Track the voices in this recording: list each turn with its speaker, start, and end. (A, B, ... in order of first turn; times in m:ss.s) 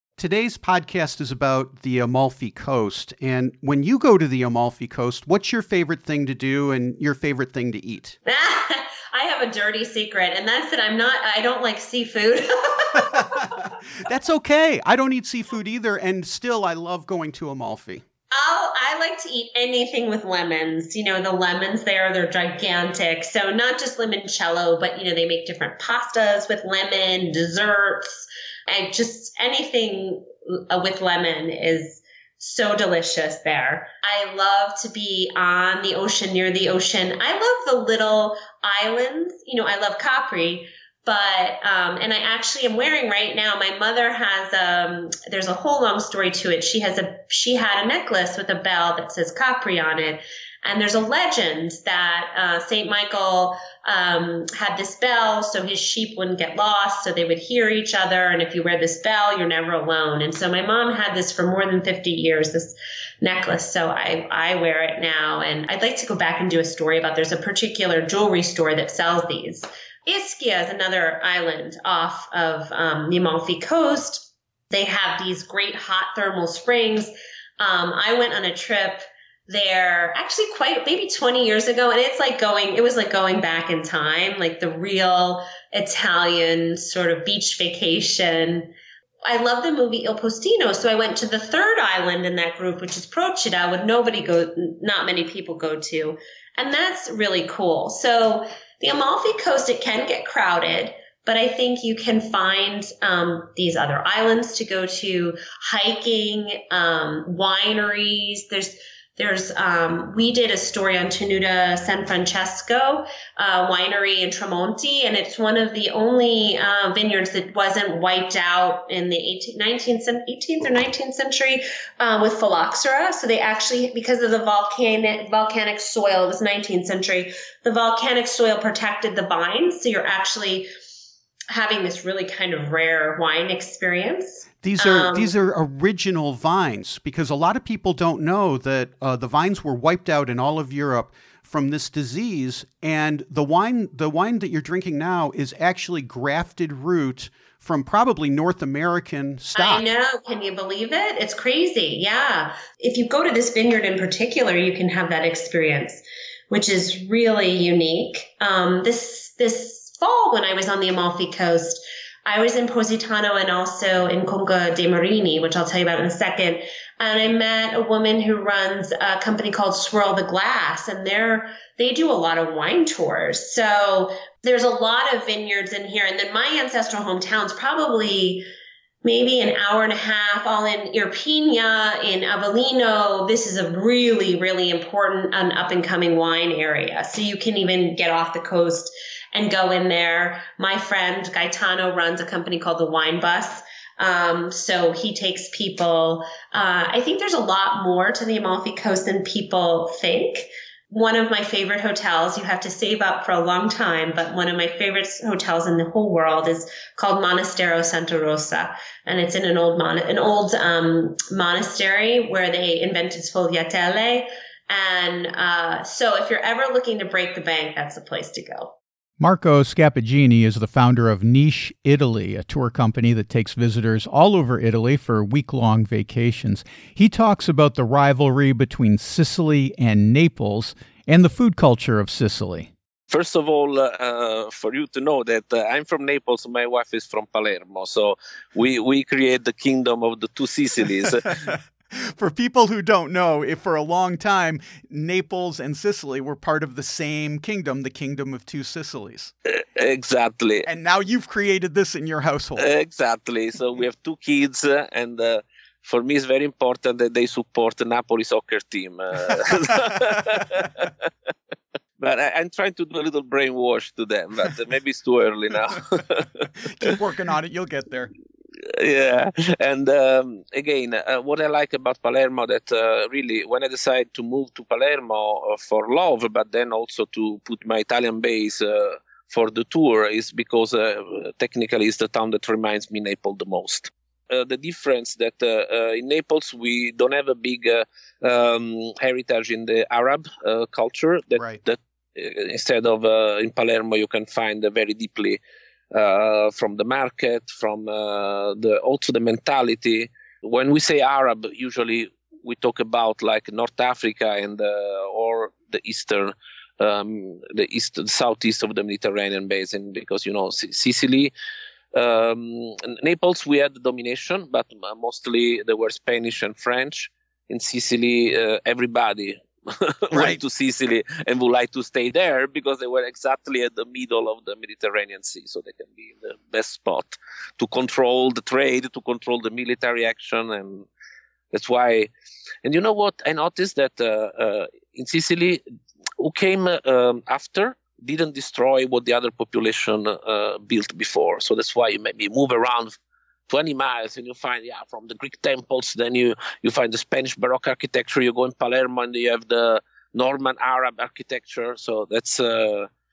0:00.2-0:08.2 A
0:08.2-0:13.4 B
0:13.0-0:18.0 A
0:18.3-1:28.7 B
1:29.2-2:10.7 B
2:11.5-2:15.3 B
2:14.6-2:29.9 A
2:29.6-2:58.4 B
2:59.0-3:38.7 B
3:39.2-3:52.7 A
3:53.1-4:01.4 C
4:01.3-4:09.3 A
4:09.5-4:10.7 C
4:10.6-4:12.7 A
4:12.6-4:21.1 C
4:19.8-4:20.6 A
4:22.0-4:26.9 C
4:26.7-4:28.1 A
4:28.6-4:55.4 C
4:51.4-4:51.6 A
4:55.9-5:11.3 C
5:11.9-5:30.9 C
5:20.1-5:20.4 A
5:31.5-5:32.1 C
5:32.6-5:35.6 C
5:36.2-5:43.0 C
5:43.5-5:52.9 C